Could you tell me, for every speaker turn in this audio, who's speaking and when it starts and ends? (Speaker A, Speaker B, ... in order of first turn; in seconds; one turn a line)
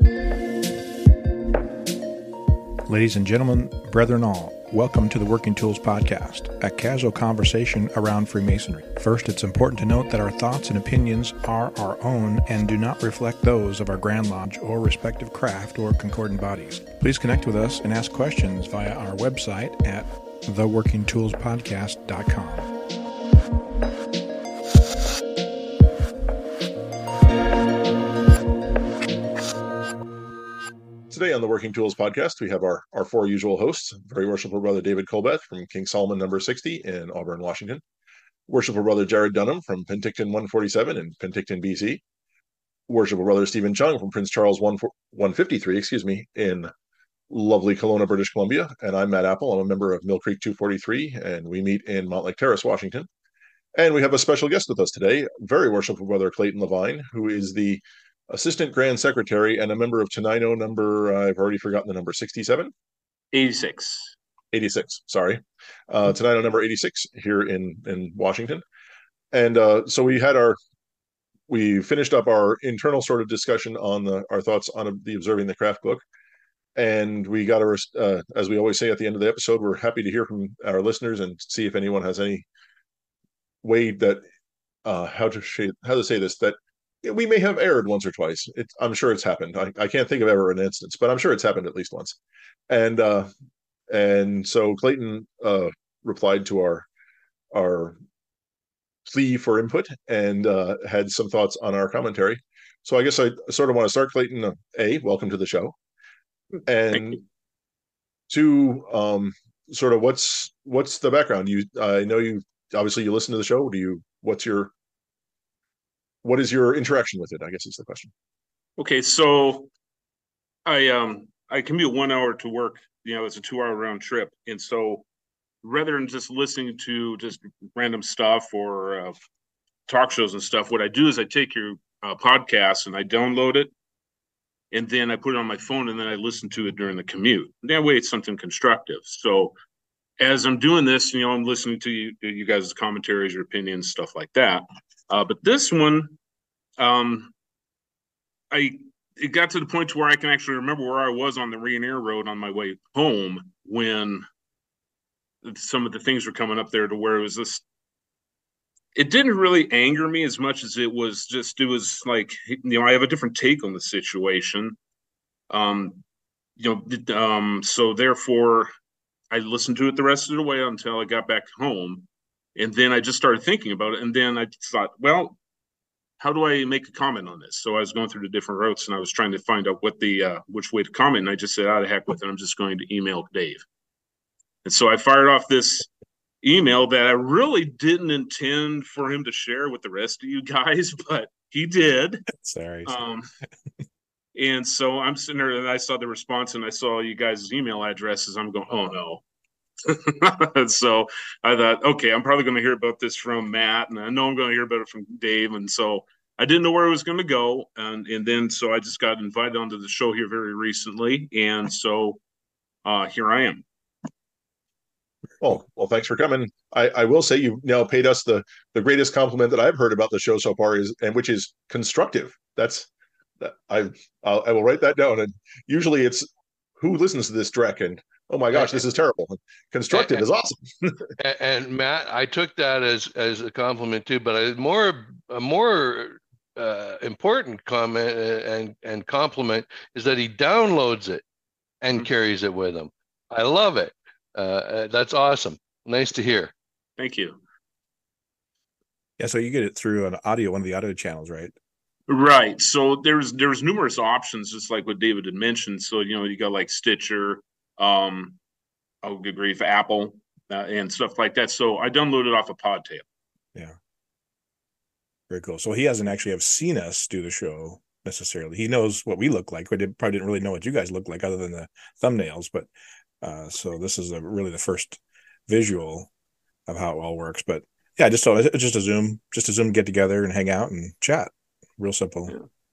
Speaker A: 2.9-22.7
Speaker B: 31.1-37.8
Speaker B: 38.5-42.0
Speaker B: 42.9-46.7
Speaker B: 47.3-53.1
Speaker B: 53.7-62.7
Speaker C: 63.3-64.1
Speaker B: 64.5-68.6
Speaker B: 69.3-70.6
Speaker B: 71.5-76.0
Speaker B: 76.8-82.5
Speaker B: 83.6-84.2
Speaker B: 84.8-92.2
Speaker B: 92.7-93.3
Speaker B: 93.9-96.9
Speaker B: 97.5-98.0
Speaker B: 99.0-105.7
Speaker B: 106.7-107.2
Speaker B: 108.3-114.7
Speaker B: 116.2-118.1
Speaker C: 118.8-119.7
Speaker C: 120.6-125.0
Speaker C: 125.6-129.1
Speaker C: 129.9-133.7
Speaker C: 134.7-139.6
Speaker C: 140.2-146.2
Speaker C: 146.8-147.3
Speaker C: 148.5-154.2
Speaker C: 155.4-157.6
Speaker C: 158.9-164.8
Speaker C: 165.5-166.0
Speaker C: 166.6-168.7
Speaker C: 169.3-175.4
Speaker C: 176.2-183.6
Speaker C: 184.6-185.9
Speaker C: 186.4-192.3
Speaker A: 192.3-193.0
Speaker C: 192.8-193.3
Speaker C: 194.3-199.2
Speaker C: 199.8-212.2
Speaker C: 212.8-213.6
Speaker B: 215.4-222.9
Speaker B: 223.4-226.3
Speaker B: 226.8-230.9
Speaker D: 228.5-228.8
Speaker D: 229.9-230.2
Speaker D: 231.2-241.2
Speaker D: 241.8-246.5
Speaker C: 247.0-247.4
Speaker A: 249.2-251.5
Speaker C: 252.1-258.4
Speaker C: 259.0-263.0
Speaker A: 265.3-272.7
Speaker A: 273.2-276.1
Speaker A: 276.7-282.3